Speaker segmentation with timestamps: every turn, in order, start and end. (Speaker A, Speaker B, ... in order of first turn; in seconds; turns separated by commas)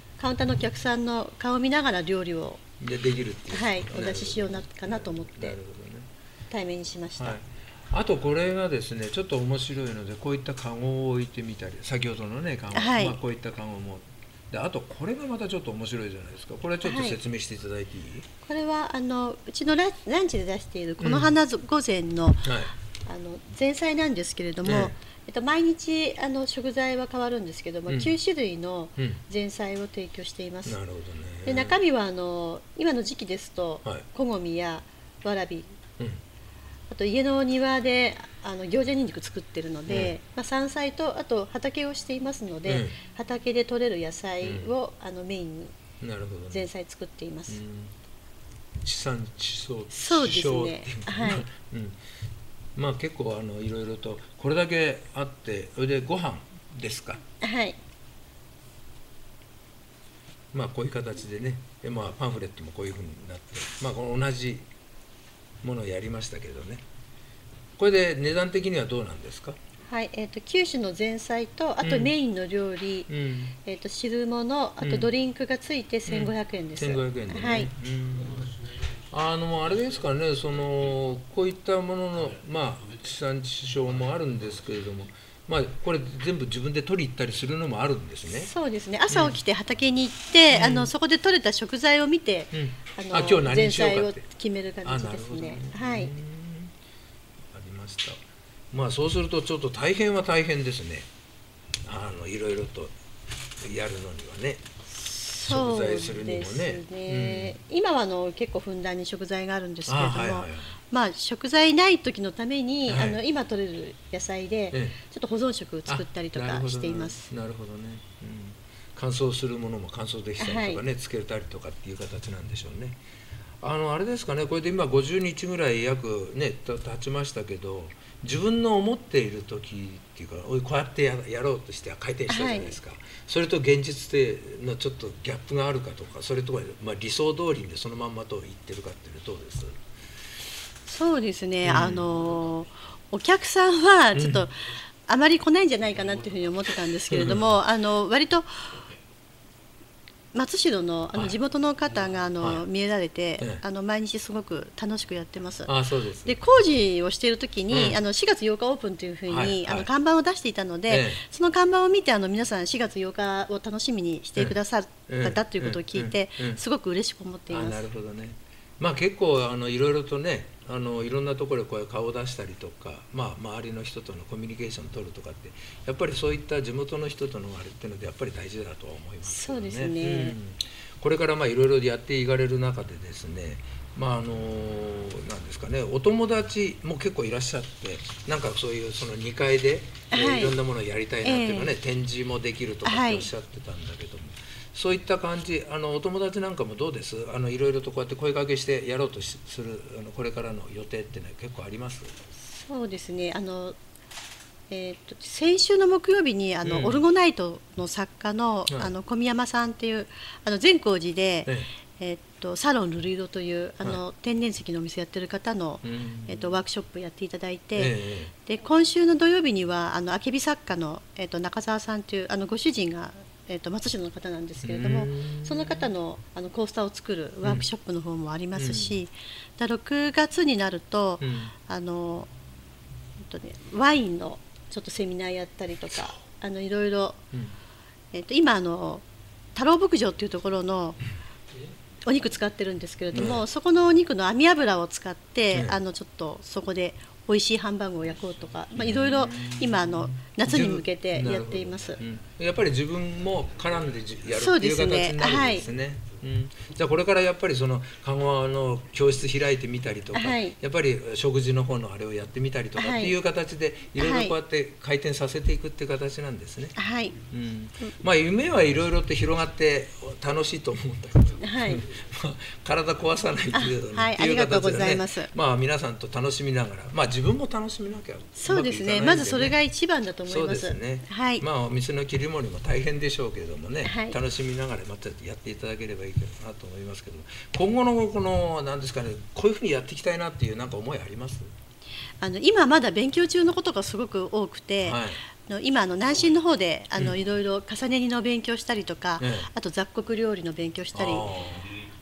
Speaker A: 0.2-2.6, Speaker B: 2.8-6.1, Speaker A: 3.5-5.6, Speaker A: 6.5-7.4, Speaker B: 7.2-18.3, Speaker A: 12.7-13.2, Speaker A: 16.8-17.2, Speaker A: 18.4-22.5, Speaker B: 21.0-21.3, Speaker B: 22.4-22.7, Speaker A: 23.0-30.8, Speaker B: 24.6-24.9, Speaker B: 27.9-28.2, Speaker B: 30.6-31.8, Speaker A: 31.4-35.8, Speaker A: 36.9-45.7, Speaker B: 39.9-40.1, Speaker B: 42.6-43.0, Speaker B: 44.4-44.7, Speaker B: 46.0-46.7, Speaker A: 46.5-47.6, Speaker B: 47.5-47.9, Speaker B: 48.8-52.0, Speaker A: 49.9-51.4, Speaker B: 52.8-57.2, Speaker A: 57.4-57.8, Speaker B: 60.5-64.7, Speaker B: 65.6-66.8, Speaker B: 67.8-69.6, Speaker A: 69.9-73.1, Speaker B: 71.8-72.1, Speaker B: 73.1-73.6, Speaker A: 73.6-77.7, Speaker B: 74.8-75.1, Speaker B: 76.1-88.5, Speaker A: 88.4-96.1, Speaker B: 89.1-89.4, Speaker B: 90.5-90.9, Speaker B: 92.5-94.2, Speaker B: 94.8-96.7, Speaker B: 97.5-101.1, Speaker B: 101.8-102.9, Speaker B: 103.6-104.6, Speaker A: 104.9-117.3, Speaker B: 105.5-107.5, Speaker B: 109.9-110.8, Speaker B: 112.9-113.2, Speaker B: 115.9-123.0, Speaker A: 120.4-120.8, Speaker B: 123.6-139.8, Speaker A: 132.3-132.8, Speaker A: 140.8-148.7, Speaker B: 141.6-142.1, Speaker B: 144.1-144.4, Speaker B: 147.1-147.4, Speaker A: 150.3-155.7, Speaker B: 155.7-156.4, Speaker A: 156.2-167.8, Speaker B: 157.7-158.0, Speaker B: 159.3-159.9, Speaker B: 160.9-161.2, Speaker B: 164.4-166.6, Speaker B: 167.5-202.1, Speaker A: 179.2-180.3, Speaker A: 190.1-190.6, Speaker A: 191.2-191.8, Speaker A: 192.8-193.3, Speaker A: 202.4-203.8, Speaker A: 204.7-232.3, Speaker B: 206.6-207.0, Speaker B: 215.8-216.6, Speaker B: 217.8-218.3, Speaker B: 224.6-225.8, Speaker B: 228.5-229.0, Speaker B: 231.2-231.5, Speaker A: 233.2-237.2, Speaker A: 238.1-239.0, Speaker A: 239.5-241.0, Speaker A: 242.0-252.0, Speaker B: 243.1-243.4, Speaker B: 248.8-266.8, Speaker A: 254.4-255.6, Speaker A: 260.1-260.6, Speaker A: 262.8-263.1, Speaker A: 263.9-264.3, Speaker A: 266.8-267.2, Speaker B: 267.3-279.6, Speaker A: 271.4-271.8, Speaker A: 273.5-275.3, Speaker A: 278.4-281.4, Speaker B: 280.3-291.5, Speaker A: 283.8-284.1, Speaker A: 292.2-301.3, Speaker B: 294.8-295.2, Speaker B: 299.2-299.5, Speaker B: 300.9-301.8